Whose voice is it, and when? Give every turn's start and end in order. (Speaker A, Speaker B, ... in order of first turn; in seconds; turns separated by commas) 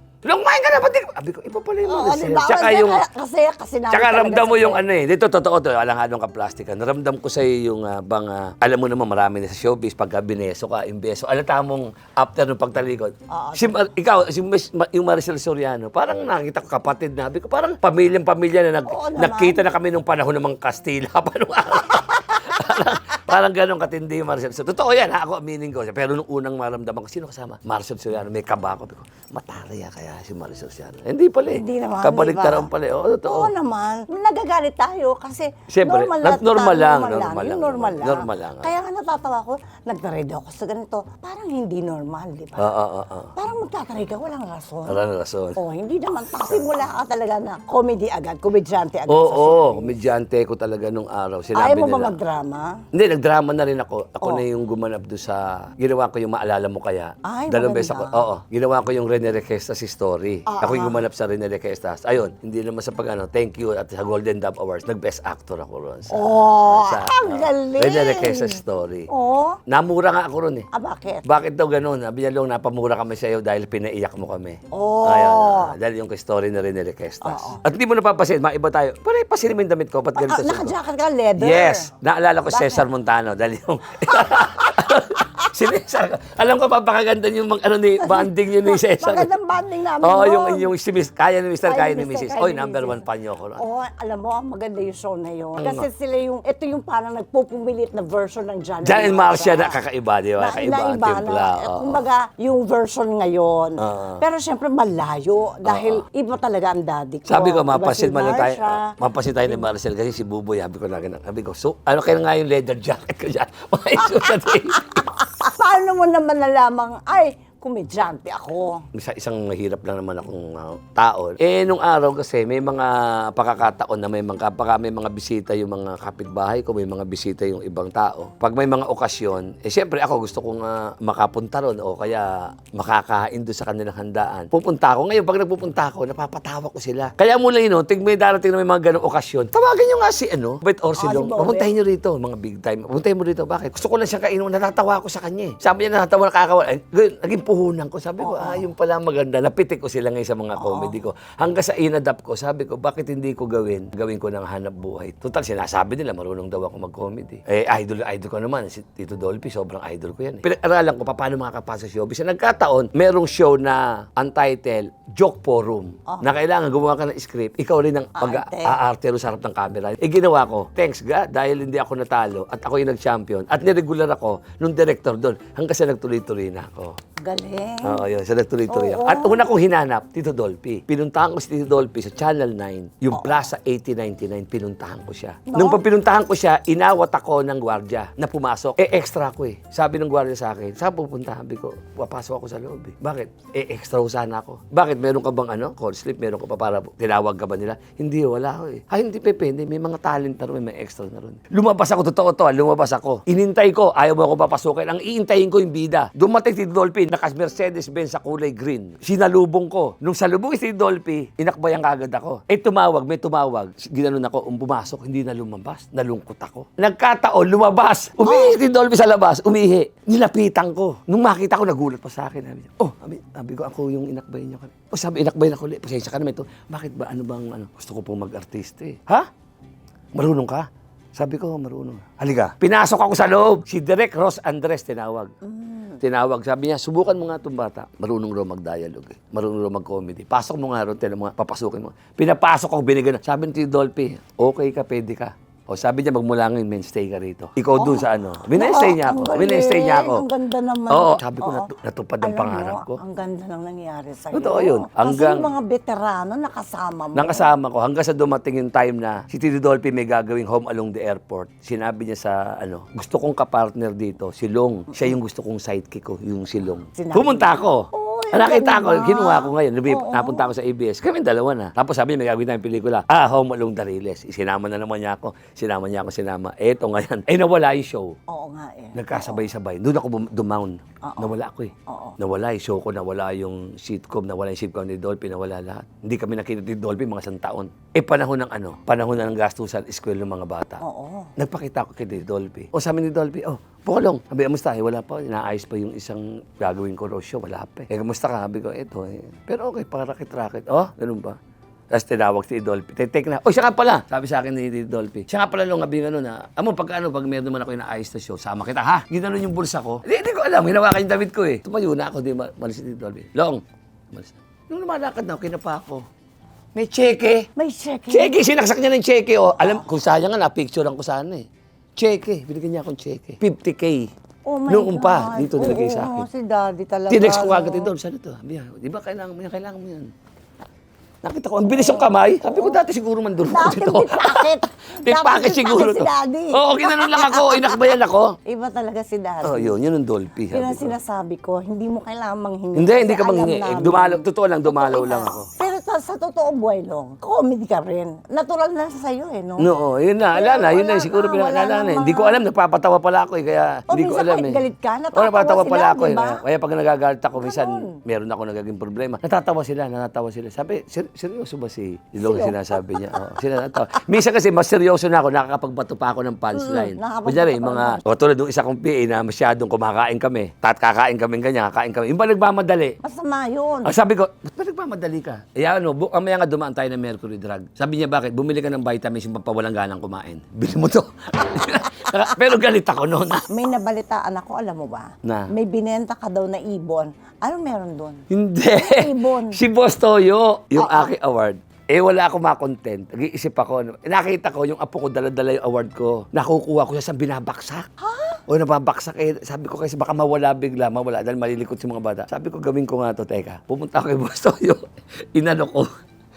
Speaker A: 0.2-3.0, Speaker B: 1.8-4.8, Speaker A: 3.9-33.5, Speaker B: 13.3-13.8, Speaker B: 18.9-19.6, Speaker B: 22.0-23.2, Speaker B: 31.5-32.7, Speaker B: 33.2-42.7, Speaker A: 35.7-38.7, Speaker A: 42.6-43.3, Speaker B: 43.4-45.0, Speaker A: 44.9-45.6, Speaker B: 45.5-50.0, Speaker A: 46.5-46.7, Speaker A: 49.1-52.1, Speaker B: 51.5-52.7, Speaker A: 52.9-69.1, Speaker B: 57.2-58.2, Speaker B: 60.5-61.0, Speaker B: 66.1-69.6, Speaker A: 69.7-70.7, Speaker B: 70.7-71.2, Speaker A: 71.2-80.7, Speaker B: 74.7-75.7, Speaker B: 77.2-77.6, Speaker B: 80.2-81.9, Speaker A: 81.4-89.3, Speaker B: 82.5-82.8, Speaker B: 84.1-85.5, Speaker B: 88.0-90.7, Speaker A: 90.0-93.6, Speaker B: 91.6-93.0, Speaker B: 93.5-99.8, Speaker A: 95.6-95.9, Speaker A: 98.8-102.1, Speaker B: 100.4-108.9, Speaker A: 103.8-104.2, Speaker A: 105.6-106.0, Speaker A: 107.3-115.0, Speaker B: 114.0-118.8, Speaker A: 118.9-176.9, Speaker B: 141.0-141.7, Speaker B: 148.2-148.7, Speaker B: 150.6-150.9, Speaker B: 168.2-168.8, Speaker B: 177.2-178.0, Speaker A: 177.8-229.3, Speaker B: 178.7-179.4, Speaker B: 183.1-183.4, Speaker B: 185.5-185.8, Speaker B: 218.2-218.6, Speaker A: 230.1-235.3, Speaker B: 235.4-236.0, Speaker A: 236.0-250.2, Speaker B: 247.7-251.7, Speaker A: 250.9-253.0, Speaker B: 252.2-257.5, Speaker A: 254.3-255.5, Speaker A: 257.1-278.1, Speaker B: 266.9-270.5, Speaker B: 278.3-279.4, Speaker A: 278.9-290.8, Speaker B: 281.0-281.3, Speaker B: 281.9-282.2, Speaker B: 290.8-291.3, Speaker A: 291.4-301.4, Speaker A: 301.9-316.0, Speaker A: 316.8-317.5, Speaker B: 317.6-318.5, Speaker A: 318.1-321.4, Speaker B: 319.6-319.9, Speaker A: 322.0-324.1, Speaker B: 324.4-327.9, Speaker A: 324.7-326.3, Speaker A: 327.1-330.1, Speaker A: 331.2-334.5, Speaker B: 331.7-332.8, Speaker B: 333.4-337.9, Speaker A: 335.0-338.3, Speaker B: 338.4-339.8, Speaker A: 339.4-340.9, Speaker B: 340.5-349.7, Speaker A: 342.8-345.5, Speaker A: 349.6-354.6, Speaker B: 350.3-352.4, Speaker B: 353.9-356.4, Speaker A: 355.1-373.0, Speaker B: 357.4-358.0, Speaker B: 362.2-363.4, Speaker B: 366.5-368.0, Speaker B: 373.0-373.9, Speaker A: 373.8-383.5, Speaker B: 382.0-382.3, Speaker B: 383.5-388.2, Speaker A: 385.2-385.5, Speaker A: 388.3-397.9, Speaker B: 388.8-389.6, Speaker B: 390.7-391.1, Speaker B: 398.0-398.4, Speaker A: 398.5-404.8, Speaker A: 405.3-405.9